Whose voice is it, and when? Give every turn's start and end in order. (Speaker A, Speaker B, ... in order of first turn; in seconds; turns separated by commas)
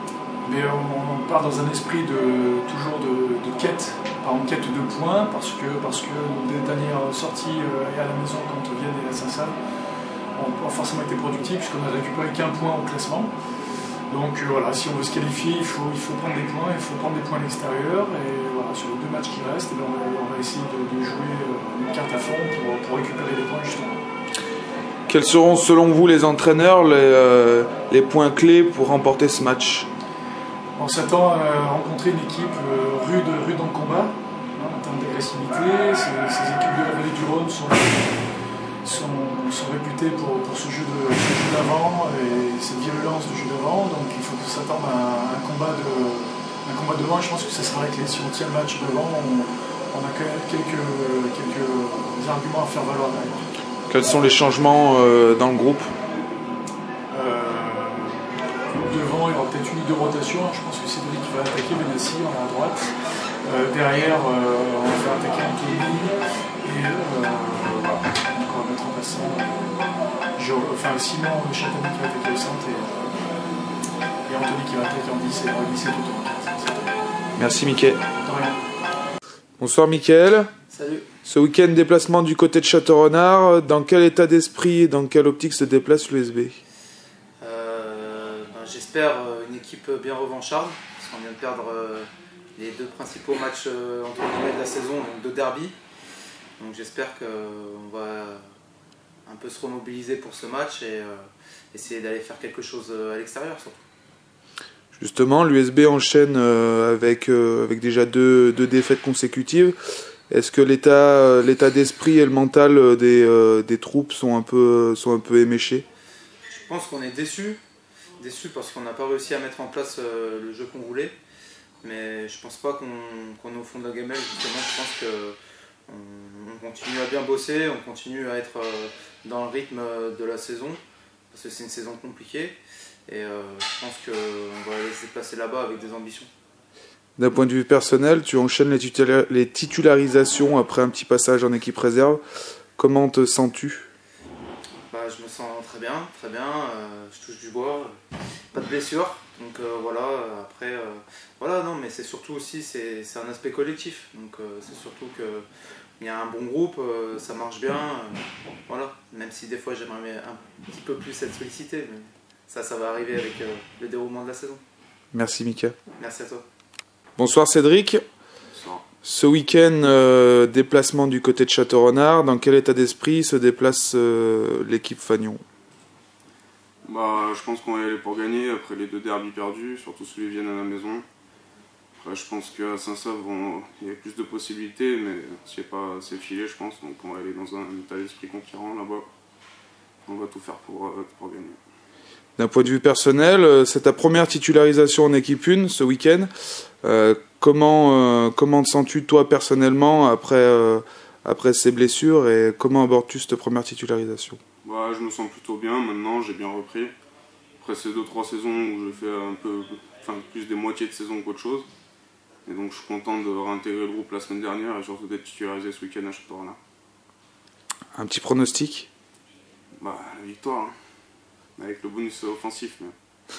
Speaker A: 0.5-9.6, Speaker A: 10.4-13.3, Speaker A: 14.1-24.0, Speaker B: 25.1-29.9, Speaker A: 30.8-38.1, Speaker A: 38.8-53.5, Speaker B: 53.9-55.9, Speaker A: 57.1-62.9, Speaker A: 63.5-69.8, Speaker A: 70.3-73.2, Speaker A: 74.3-76.9, Speaker B: 77.4-78.0, Speaker A: 78.2-78.6, Speaker B: 79.6-80.5, Speaker C: 80.7-81.1, Speaker B: 81.2-86.6, Speaker C: 87.4-95.8, Speaker C: 96.6-98.4, Speaker C: 99.3-101.2, Speaker C: 101.7-103.8, Speaker B: 104.9-109.8, Speaker B: 110.3-115.9, Speaker C: 116.6-117.6, Speaker C: 118.2-121.2, Speaker C: 121.8-125.4, Speaker C: 125.9-130.8, Speaker C: 131.3-136.3, Speaker B: 137.2-142.2, Speaker B: 142.8-143.9, Speaker C: 144.9-147.9, Speaker C: 148.5-155.4, Speaker C: 156.0-164.6, Speaker B: 165.1-165.8, Speaker C: 166.0-166.4, Speaker B: 167.2-168.0, Speaker D: 168.5-168.8, Speaker B: 169.0-175.4, Speaker D: 176.8-181.1, Speaker D: 182.0-189.1, Speaker D: 190.1-191.6, Speaker B: 192.4-196.3, Speaker B: 196.8-204.4, Speaker D: 204.6-206.9, Speaker D: 207.6-211.7, Speaker D: 212.5-216.6, Speaker B: 217.9-218.9, Speaker D: 219.8-220.8, Speaker D: 221.6-222.9